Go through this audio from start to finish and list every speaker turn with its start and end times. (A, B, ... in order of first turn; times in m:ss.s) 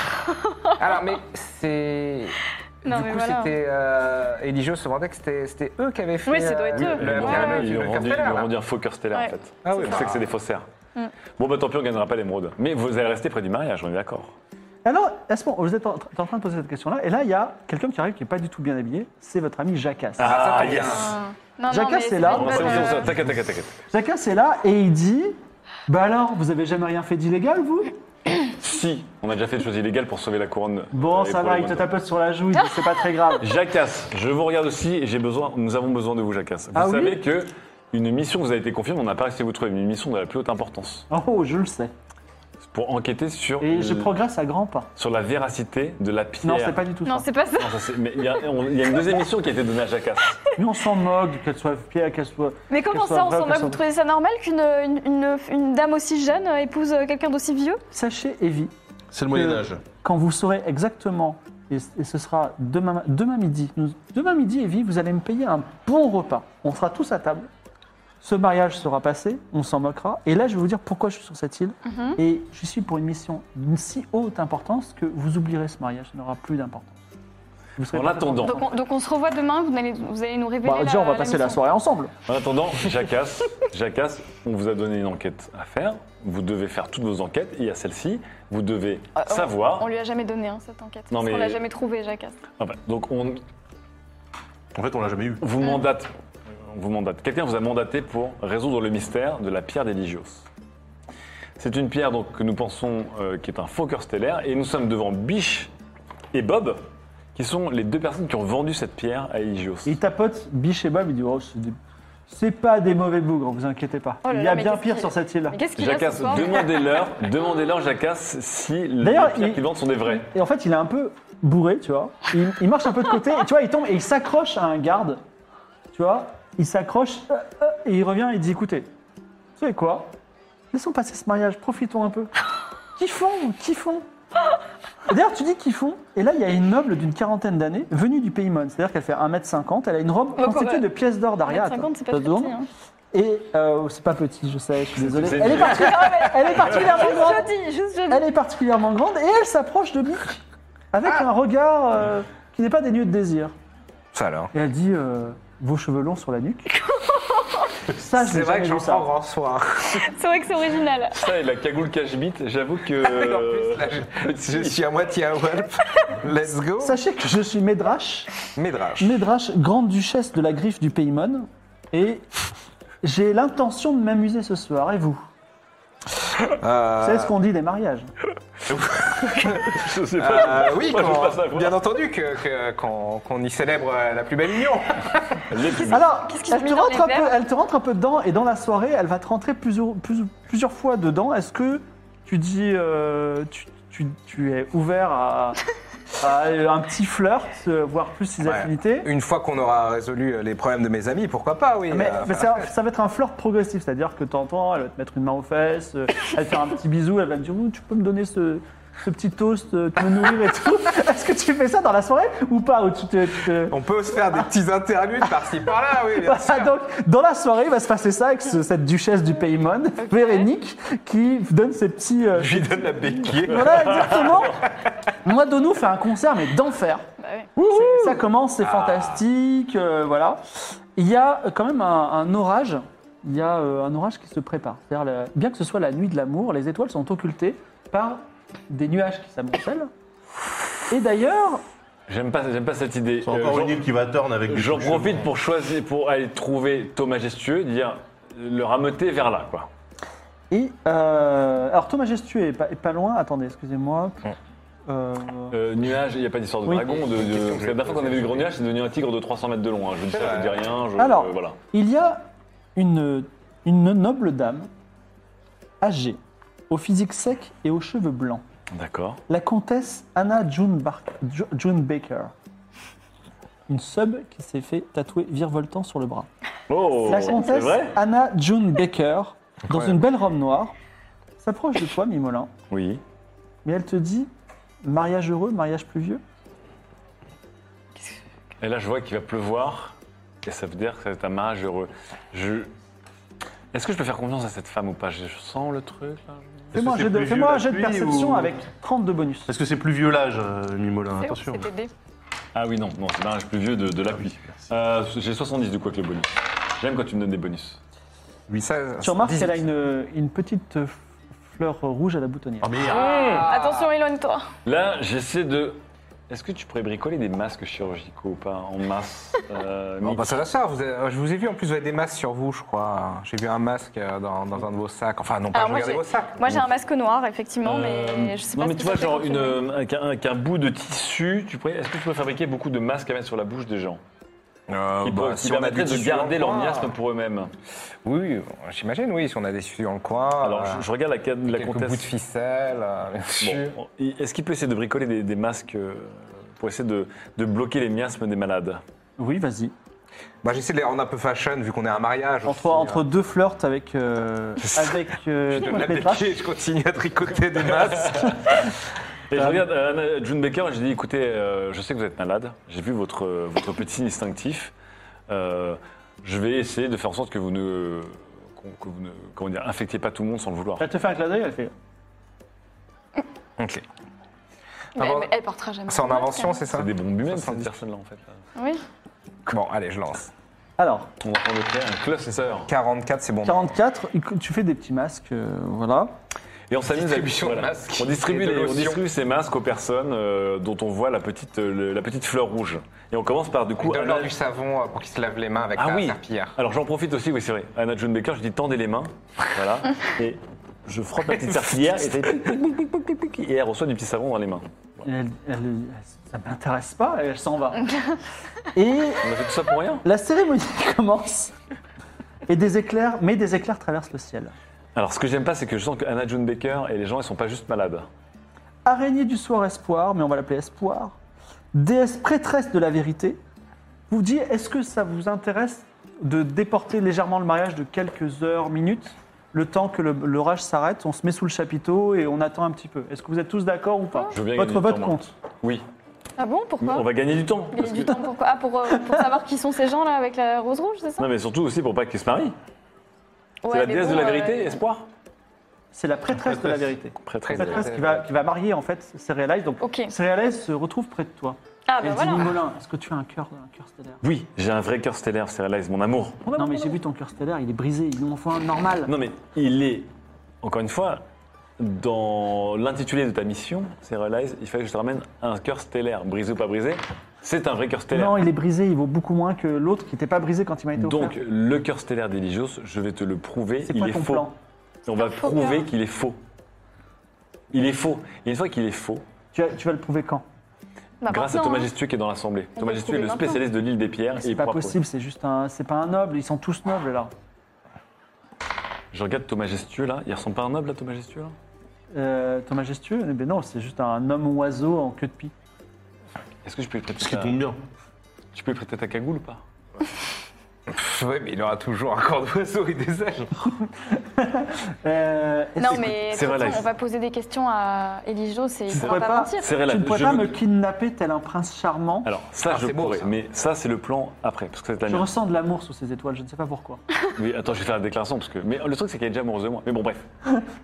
0:00.1-0:01.0 A
0:00.8-0:08.5 B
0:02.8-0:03.5 A
0:06.2-0:07.8 A
0:06.8-0:10.6 C
0:09.6-0:10.3 B
0:11.4-0:14.3 C
0:14.8-0:20.3 D
0:20.2-0:21.1 C
0:20.2-0:21.1 B
0:20.8-0:23.1 A
0:21.7-0:23.1 D
0:22.2-0:23.8 C
0:23.9-0:27.9 D
0:28.5-0:31.9 C
0:30.9-0:33.5 D
0:32.6-0:33.0 A
0:33.4-0:41.1 C
0:36.7-0:37.2 D
0:41.1-0:41.9 D
0:42.6-0:44.1 C
0:43.6-0:44.9 D
0:45.0-0:46.8 C
0:46.4-0:47.2 D
0:47.0-0:48.4 A
0:47.6-0:50.4 C
0:50.5-0:53.8 D
0:52.7-0:57.8 A
0:57.9-0:58.7 D
0:59.1-0:59.8 E
0:59.3-1:07.5 D
1:08.2-1:17.0 D
1:11.8-1:12.2 A
1:17.8-1:18.6 D
1:17.9-1:18.6 C
1:18.4-1:21.6 A
1:20.6-1:22.1 D
1:22.3-1:29.9 C
1:29.2-1:32.4 A
1:31.1-1:31.6 C
1:32.5-1:33.4 C
1:34.8-1:35.4 E
1:35.4-1:36.1 C
1:36.6-1:40.4 C
1:41.6-1:45.7 C
1:46.3-1:46.8 C
1:47.3-1:50.0 C
1:49.8-1:51.8 D
1:52.3-1:55.6 D
1:54.2-1:57.1 A
1:55.7-2:00.3 C
1:59.0-2:05.2 D
2:05.9-2:08.9 D
2:09.6-2:10.1 D
2:10.7-2:12.3 D
2:13.0-2:14.0 D
2:15.1-2:22.5 D
2:20.4-2:20.9 A
2:21.4-2:22.7 A
2:23.1-2:27.5 D
2:25.0-2:26.9 C
2:25.5-2:28.2 A
2:28.1-2:33.5 D
2:34.1-2:34.5 B
2:34.5-2:36.8 D
2:37.9-2:39.1 D
2:38.1-2:40.0 B
2:40.0-2:41.2 A
2:41.1-2:44.8 C
2:43.0-2:47.0 B
2:46.8-2:48.3 D
2:48.6-2:49.1 B
2:49.0-2:52.2 D
2:53.0-2:55.2 D
2:56.6-2:57.3 B
2:57.0-2:58.1 D
2:58.7-3:05.5 B
2:58.9-3:01.8 C
3:05.5-3:06.0 C
3:05.9-3:15.6 D
3:06.0-3:07.3 A
3:16.2-3:19.1 D
3:18.4-3:22.7 B
3:21.9-3:33.8 D
3:33.7-3:36.7 B
3:36.2-3:42.8 D
3:40.0-3:40.4 A
3:42.3-3:44.7 B
3:43.4-3:44.6 D
3:43.5-3:44.6 C
3:45.2-3:47.0 D
3:47.2-3:47.5 A
3:47.6-3:59.9 D
3:48.6-3:49.2 B
4:00.9-4:01.6 D
4:02.1-4:03.8 C
4:03.2-4:05.3 E
4:04.5-4:09.7 C
4:10.5-4:14.2 D
4:14.9-4:15.6 D
4:15.5-4:21.6 C
4:16.6-4:16.9 D
4:16.8-4:18.6 B
4:20.1-4:20.8 B
4:21.0-4:24.7 D
4:25.8-4:28.4 D
4:28.7-4:29.2 C
4:29.3-4:32.3 D
4:33.7-4:36.3 D
4:36.7-4:38.0 C
4:37.0-4:40.7 D
4:39.7-4:40.0 B
4:41.4-4:42.5 D
4:42.7-4:43.0 C
4:43.6-4:44.3 D
4:44.8-4:46.2 D
4:48.6-4:52.7 C
4:53.7-4:56.8 C
4:56.7-4:58.5 E
4:56.7-4:59.5 D
4:59.5-5:01.7 E
5:01.2-5:01.9 A
5:02.5-5:07.8 C
5:04.1-5:04.7 E
5:08.5-5:09.6 B
5:09.0-5:11.0 D
5:11.5-5:12.7 D
5:12.6-5:13.4 E
5:12.9-5:14.5 A
5:13.0-5:13.8 B
5:13.0-5:13.5 C
5:14.6-5:15.8 C
5:16.3-5:20.4 C
5:20.0-5:26.6 B
5:25.5-5:29.6 A
5:27.6-5:34.0 C
5:34.7-5:36.9 B
5:35.0-5:37.5 C
5:38.0-5:40.8 B
5:40.4-5:42.1 C
5:41.4-5:43.8 B
5:43.4-5:48.8 C
5:49.2-5:49.7 D
5:50.4-5:53.1 B
5:52.4-5:56.3 D
5:55.5-5:58.4 B
5:57.7-5:58.7 C
5:59.3-6:04.7 C
5:59.3-5:59.6 D
6:05.3-6:10.8 C
6:10.8-6:11.7 D
6:13.6-6:13.8 B
6:15.0-6:15.3 B
6:15.0-6:16.6 A
6:15.9-6:17.8 B
6:16.7-6:18.4 C
6:18.6-6:18.8 A
6:19.5-6:20.3 B
6:20.8-6:21.1 D
6:21.2-6:22.7 C
6:22.7-6:23.7 B
6:23.4-6:26.1 D
6:26.7-6:34.3 C
6:26.9-6:29.0 B
6:33.8-6:36.6 B
6:35.8-6:44.6 C
6:41.4-6:42.0 B
6:45.0-6:47.9 D
6:48.7-6:49.2 D
6:49.2-6:50.0 C
6:50.0-6:51.5 D
6:52.5-6:54.5 D
6:54.9-6:58.1 C
6:58.8-7:01.2 D
7:01.7-7:03.4 D
7:04.1-7:15.3 D
7:14.3-7:15.8 C
7:16.4-7:17.1 A
7:16.8-7:18.2 C
7:17.7-7:21.3 A
7:21.2-7:22.5 C
7:23.6-7:24.8 A
7:23.7-7:25.1 C
7:25.9-7:34.2 D
7:27.2-7:27.9 C
7:27.4-7:28.3 B
7:29.8-7:30.1 A
7:31.9-7:32.6 A
7:34.2-7:36.5 C
7:36.4-7:39.1 D
7:39.0-7:40.1 C
7:40.6-7:41.2 C
7:41.8-7:48.4 C
7:48.1-7:51.4 D
7:50.9-7:54.5 C
7:53.8-7:54.5 D
7:55.1-7:56.4 C
7:55.2-7:55.9 A
7:57.7-7:59.2 C
7:59.5-8:00.4 D
8:01.2-8:01.9 A
8:01.3-8:05.0 C
8:02.8-8:03.6 A
8:04.4-8:07.3 D
8:09.1-8:11.5 C
8:12.1-8:15.5 D
8:16.6-8:17.6 C
8:17.1-8:17.8 E
8:18.5-8:19.6 C
8:20.9-8:23.5 B
8:24.1-8:26.1 D
8:25.8-8:29.7 A
8:25.9-8:26.8 C
8:28.9-8:30.6 C
8:28.9-8:32.3 D
8:32.2-8:35.3 C
8:32.7-8:33.3 B
8:35.1-8:37.0 D
8:37.4-8:40.2 C